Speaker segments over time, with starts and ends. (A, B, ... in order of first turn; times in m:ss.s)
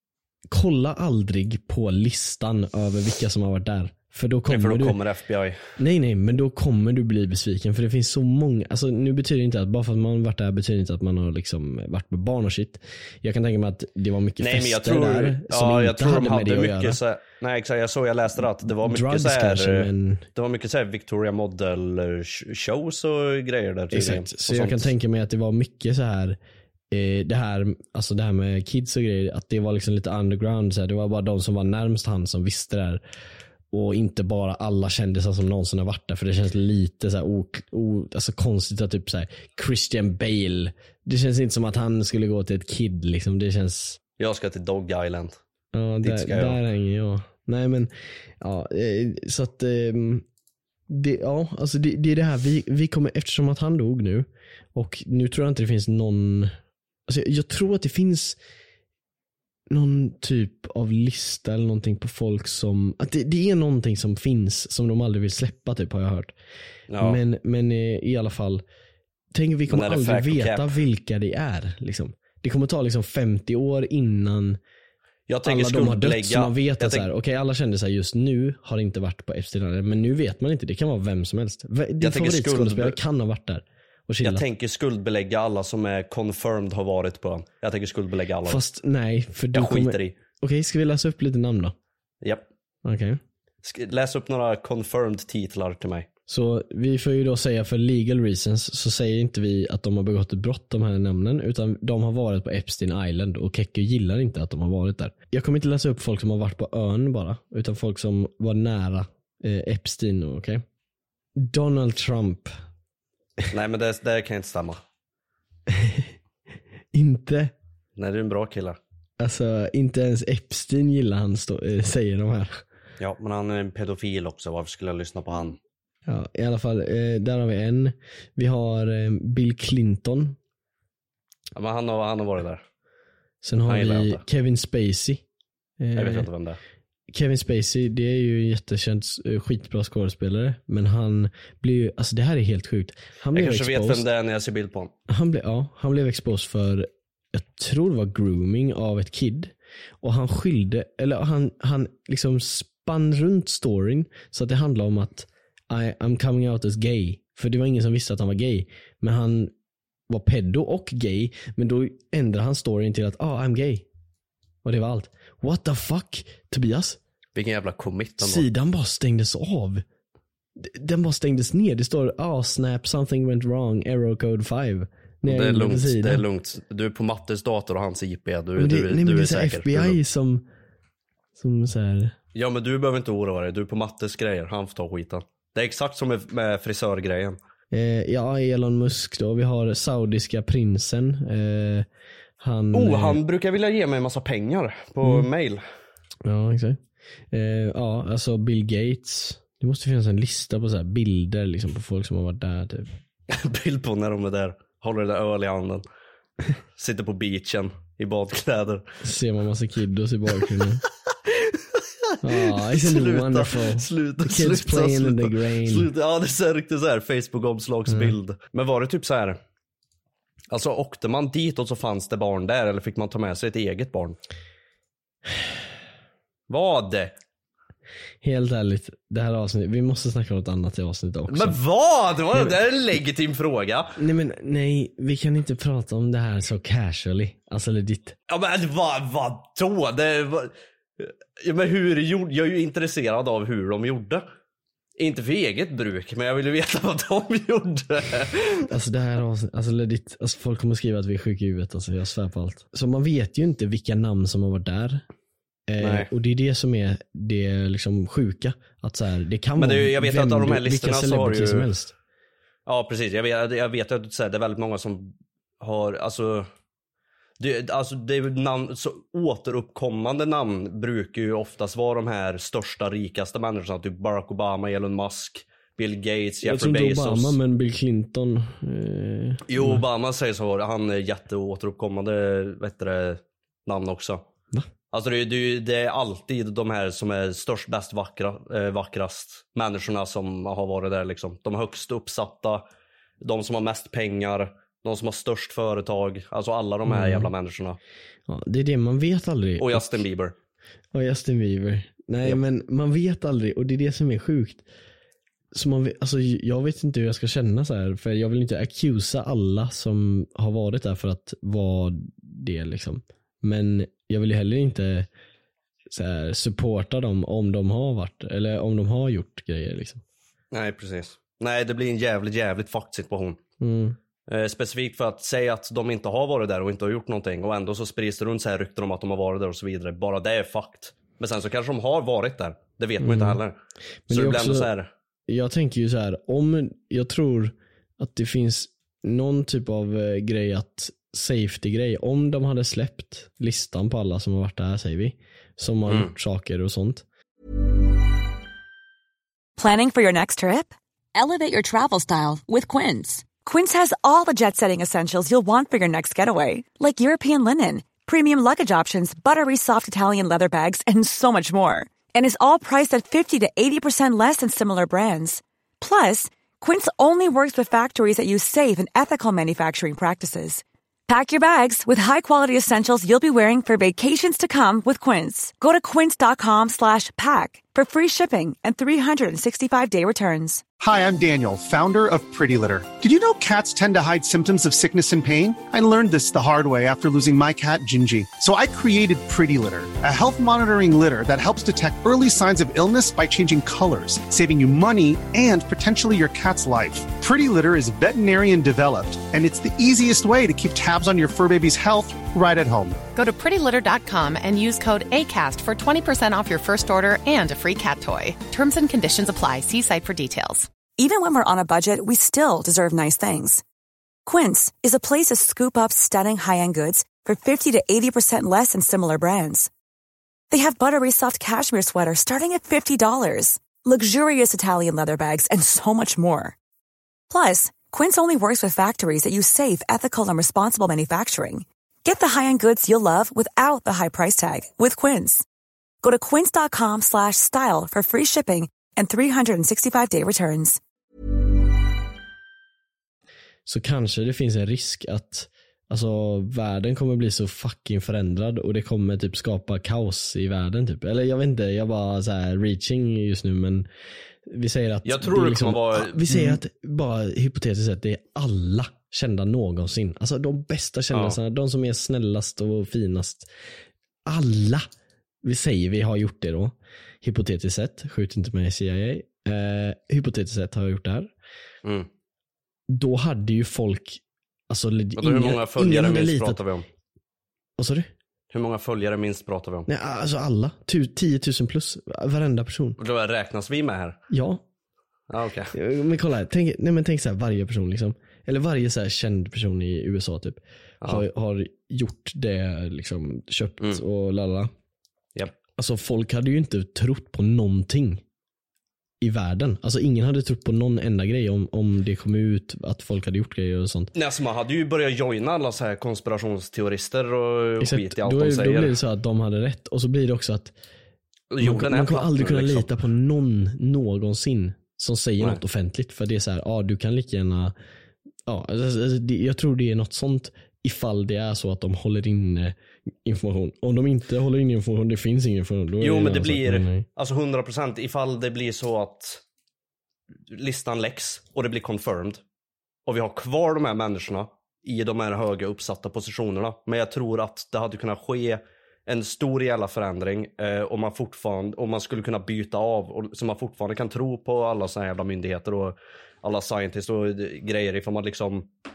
0:00.5-0:05.0 A
0:04.5-0:05.6 B
0:05.8-0:17.0 A
0:14.4-0:24.9 B
0:18.6-0:20.2 A
0:23.9-0:26.4 A
0:26.9-0:33.0 A
0:33.7-0:44.0 A
0:44.2-0:45.4 B
0:45.7-0:50.2 A
0:46.0-0:46.6 B
0:50.9-0:56.5 A
0:57.1-0:58.4 A
0:59.7-1:06.3 A
1:06.9-1:07.2 B
1:07.0-1:08.6 A
1:09.3-1:14.6 A
1:09.7-1:10.7 B
1:15.3-1:17.1 B
1:15.4-1:24.4 A
1:22.0-1:23.0 B
1:24.2-1:28.6 B
1:28.4-1:31.7 A
1:29.5-1:30.1 B
1:32.8-1:33.2 A
1:33.6-1:36.1 B
1:36.3-1:50.6 A
1:51.4-1:52.5 A
1:53.5-1:54.8 B
1:55.7-1:56.1 A
1:56.9-1:57.5 A
1:58.0-1:58.8 B
1:59.2-2:02.6 A
2:03.0-2:05.6 B
2:06.0-2:10.4 A
2:11.6-2:12.6 B
2:13.4-2:15.2 A
2:13.6-2:14.2 B
2:15.8-2:16.3 A
2:16.0-2:16.6 B
2:17.1-2:24.0 A
2:23.3-2:24.9 B
2:25.1-2:39.5 A
2:40.1-2:43.8 A
2:44.6-2:47.0 A
2:47.3-2:48.5 B
2:48.2-2:49.8 A
2:50.6-2:56.2 A
2:55.2-3:00.0 B
2:58.6-3:00.4 A
3:01.4-3:02.2 A
3:02.3-3:07.4 B
3:07.7-3:11.9 A
3:12.4-3:13.2 A
3:12.7-3:15.6 B
3:15.0-3:15.3 A
3:16.2-3:22.9 A
3:23.3-3:25.8 B
3:26.8-3:28.8 B
3:29.0-3:30.8 A
3:31.5-3:39.4 B
3:32.2-3:35.9 A
3:37.9-3:38.2 A
3:40.5-3:44.2 B
3:46.5-3:47.1 B
3:48.2-3:51.6 A
3:51.3-3:53.9 B
3:54.0-3:58.1 A
3:58.3-4:04.2 B
4:05.0-4:08.6 B
4:08.7-4:15.0 A
4:15.7-4:21.9 A
4:15.8-4:16.1 B
4:19.6-4:21.7 B
4:22.7-4:26.5 B
4:27.4-4:37.4 B
4:36.4-4:39.8 A
4:39.5-4:44.2 B
4:44.9-4:52.6 B
4:53.2-4:57.8 B
4:56.8-4:57.3 A
4:58.3-5:00.0 A
4:59.6-5:00.3 B
5:00.9-5:04.6 A
5:05.5-5:15.1 A
5:15.9-5:20.0 A
5:20.5-5:23.4 B
5:23.6-5:24.0 A
5:24.3-5:33.6 B
5:33.0-5:33.4 A
5:34.1-5:34.7 A
5:34.1-5:34.9 B
5:35.3-5:47.0 A
5:45.9-5:46.1 B
5:49.6-6:20.6 C
6:20.8-6:43.0 D
6:43.1-6:50.7 E
6:51.0-6:53.6 C
6:54.2-6:59.7 C
7:00.5-7:06.5 C
7:07.3-7:15.4 C
7:16.0-7:20.8 C
7:23.6-7:33.9 A
7:34.4-7:43.5 A
7:35.0-7:36.6 B
7:41.1-7:41.4 B
7:44.2-7:44.9 A
7:45.4-7:51.3 A
7:52.9-7:56.6 A
7:55.2-7:56.8 B
7:57.8-7:58.1 A
7:58.5-7:59.9 B
7:59.9-8:03.0 A
8:03.0-8:04.2 B
8:04.3-8:04.6 A
8:05.3-8:05.7 B
8:05.7-8:14.7 A
8:15.8-8:18.2 A
8:19.2-8:24.1 A
8:24.1-8:29.0 B
8:27.8-8:30.7 A
8:31.5-8:32.9 B
8:31.6-8:37.7 A
8:38.5-8:47.0 A
8:46.0-8:49.4 B
8:50.5-8:52.4 B
8:53.1-9:08.7 B